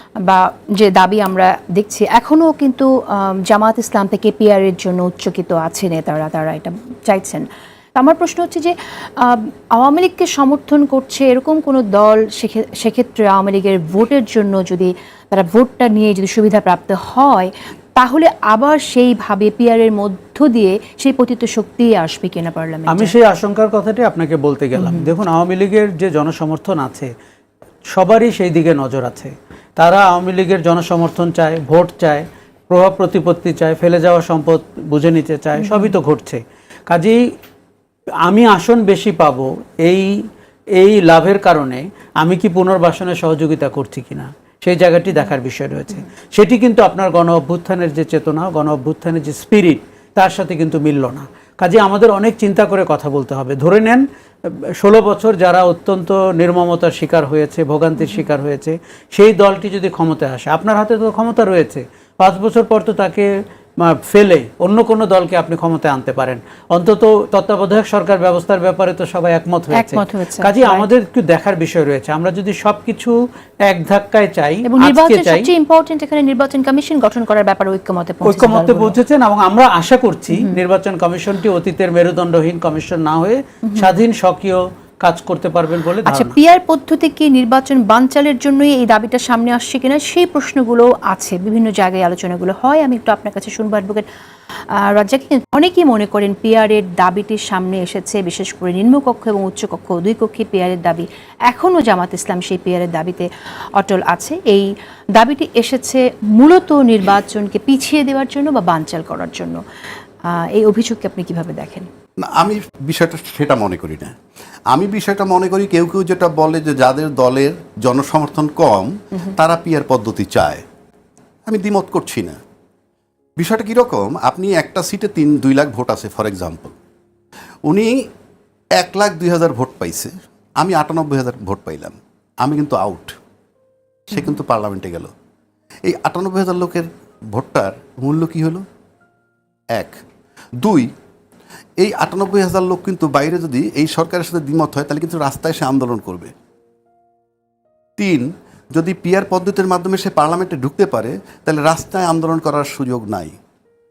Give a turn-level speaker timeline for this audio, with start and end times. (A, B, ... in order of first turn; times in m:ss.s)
0:00.2-0:23.1 A
0:22.9-0:27.1 B
0:24.8-0:25.1 A
0:27.9-0:37.2 B
0:35.6-0:36.0 A
0:38.2-0:40.2 B
0:40.8-1:15.5 B
0:58.0-0:58.3 A
1:09.7-1:10.9 A
1:14.6-1:19.0 A
1:18.2-1:26.4 B
1:20.3-1:20.6 A
1:23.7-1:24.0 A
1:26.0-1:34.1 A
1:34.7-1:49.6 A
1:50.3-1:51.9 A
1:52.2-1:54.2 C
1:54.7-2:00.6 C
2:01.5-2:02.4 C
2:03.4-2:06.8 C
2:07.7-2:08.1 C
2:08.8-2:13.2 C
2:14.1-2:15.1 C
2:15.9-2:18.6 C
2:20.6-2:20.9 C
2:21.8-2:26.3 C
2:28.0-2:33.4 C